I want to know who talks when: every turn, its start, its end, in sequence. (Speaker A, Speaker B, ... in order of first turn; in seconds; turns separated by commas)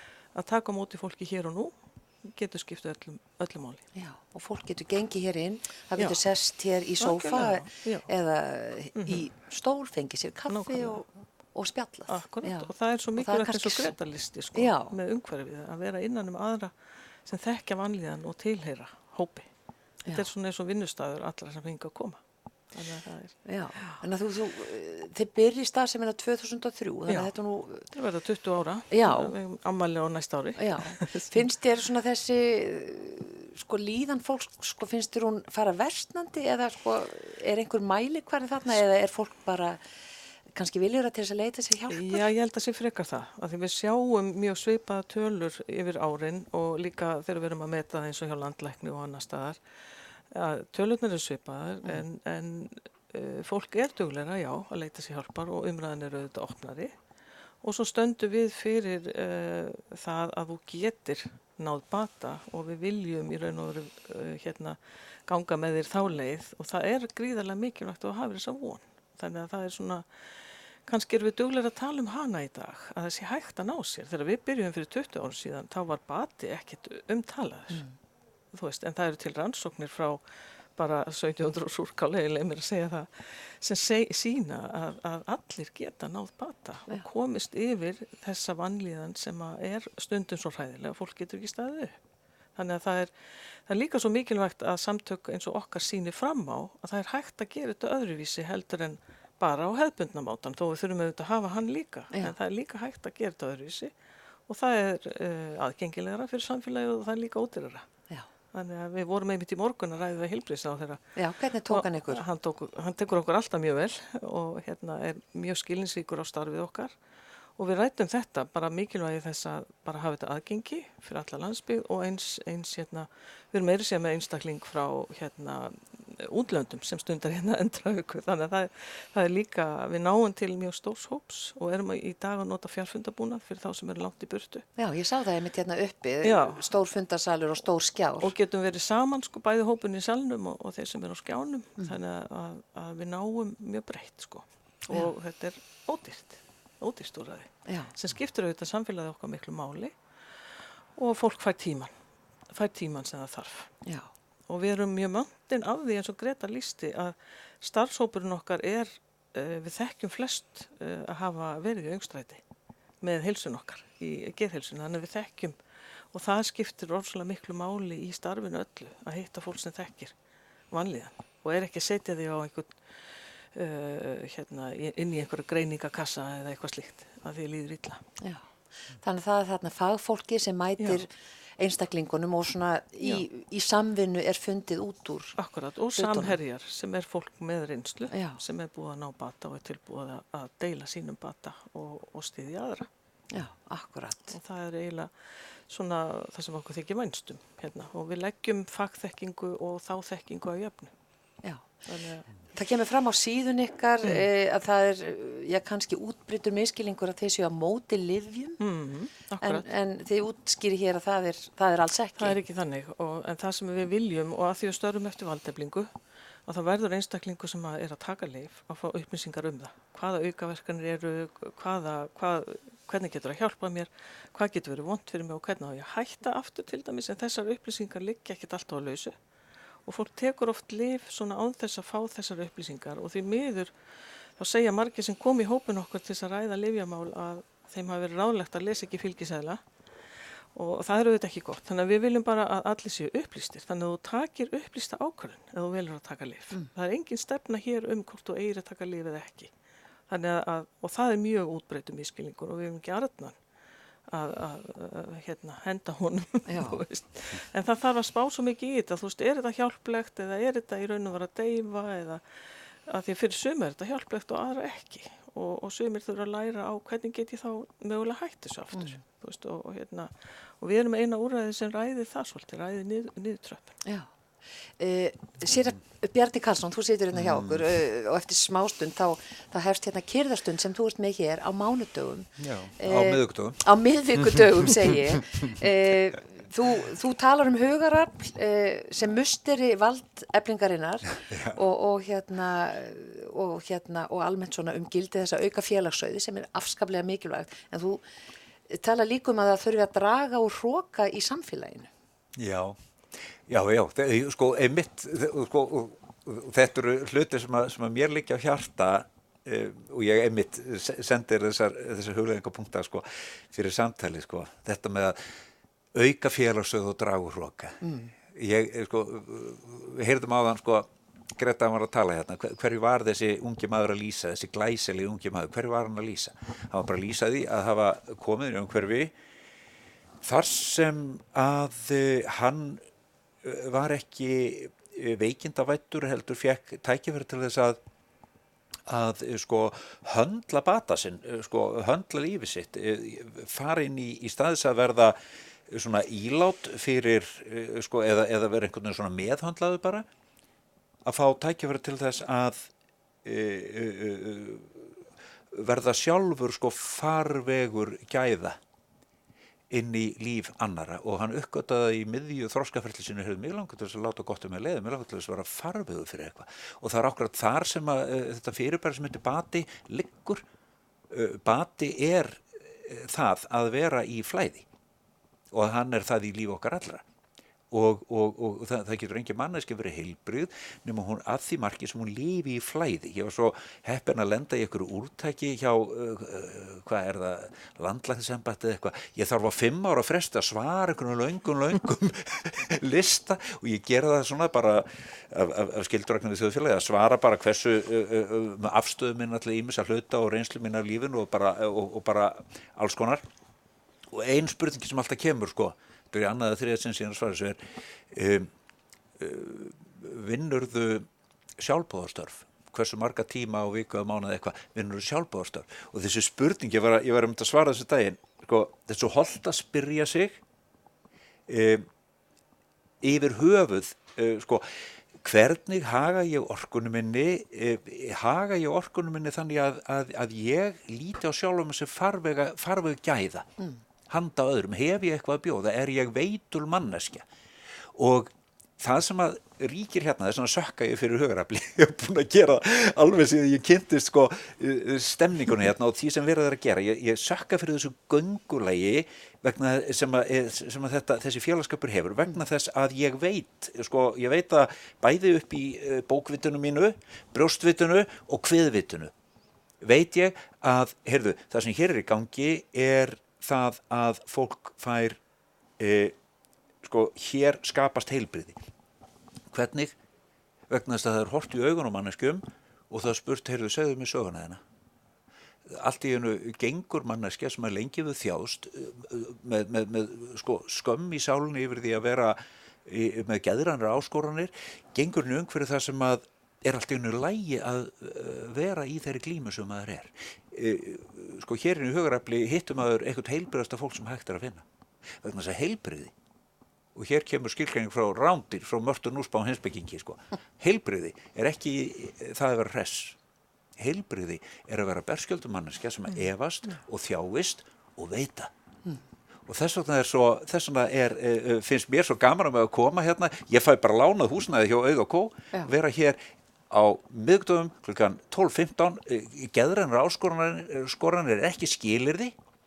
Speaker A: 0.3-3.8, Speaker B: 3.9-13.9, Speaker A: 7.0-8.1, Speaker A: 8.9-9.2, Speaker A: 10.5-11.1, Speaker A: 12.1-16.7, Speaker B: 14.5-14.9, Speaker A: 17.2-19.5, Speaker A: 20.1-22.2, Speaker A: 22.7-24.0, Speaker B: 23.4-27.9, Speaker A: 27.1-27.3, Speaker A: 27.9-31.4, Speaker B: 28.9-29.3, Speaker B: 30.6-39.8, Speaker B: 40.5-42.2, Speaker A: 41.9-49.6, Speaker A: 50.3-56.9, Speaker A: 57.6-70.0, Speaker A: 70.8-77.8, Speaker A: 78.5-80.2, Speaker A: 80.8-92.0, Speaker A: 92.5-93.1, Speaker A: 93.7-103.9, Speaker A: 104.5-107.8, Speaker A: 108.5-111.0, Speaker B: 111.2-112.2, Speaker A: 111.7-116.9, Speaker A: 117.6-134.7, Speaker B: 134.8-138.3, Speaker A: 136.2-136.6, Speaker A: 138.2-149.9, Speaker B: 147.7-147.9, Speaker A: 150.9-151.9, Speaker A: 152.5-153.7, Speaker A: 154.5-162.4, Speaker A: 163.0-165.6, Speaker A: 166.1-170.1, Speaker A: 170.7-172.8, Speaker A: 173.5-178.0, Speaker B: 179.0-185.3, Speaker A: 180.8-181.0, Speaker A: 185.4-192.9, Speaker B: 185.9-186.3, Speaker B: 188.1-188.4, Speaker B: 193.3-194.3, Speaker A: 194.3-200.9, Speaker A: 201.8-202.3, Speaker B: 202.5-208.6, Speaker A: 208.6-209.7, Speaker B: 209.4-212.4, Speaker A: 212.2-215.9, Speaker A: 216.5-229.1, Speaker A: 229.8-233.7, Speaker A: 234.4-239.6, Speaker A: 240.5-249.5, Speaker A: 250.1-253.4, Speaker A: 254.1-262.2, Speaker B: 256.5-256.8, Speaker A: 262.9-273.8, Speaker B: 268.7-269.0, Speaker B: 274.8-298.0, Speaker C: 277.1-277.6, Speaker C: 282.4-285.5, Speaker C: 291.2-291.6, Speaker B: 298.7-301.9, Speaker C: 302.4-302.8, Speaker C: 303.5-315.2, Speaker C: 315.9-329.1, Speaker B: 317.8-318.1, Speaker C: 330.2-332.8, Speaker C: 333.4-337.8, Speaker C: 338.9-345.2, Speaker C: 345.7-350.1, Speaker C: 351.0-352.7, Speaker C: 353.2-354.9, Speaker C: 355.5-358.6, Speaker C: 359.7-370.4, Speaker C: 371.1-374.6, Speaker C: 375.5-377.0, Speaker C: 377.7-403.2, Speaker C: 404.1-407.6, Speaker C: 408.1-408.5, Speaker C: 409.2-411.1, Speaker C: 411.6-420.4, Speaker C: 421.5-421.9, Speaker C: 423.0-424.7, Speaker C: 425.2-433.5, Speaker C: 434.1-437.2, Speaker C: 437.9-459.1, Speaker C: 459.8-465.2, Speaker C: 465.8-466.1, Speaker C: 466.8-468.6, Speaker C: 469.5-469.9, Speaker C: 470.7-474.6, Speaker C: 475.7-494.6, Speaker C: 495.2-496.1, Speaker C: 496.9-503.2, Speaker C: 503.8-508.5, Speaker C: 509.5-516.2, Speaker C: 516.7-522.3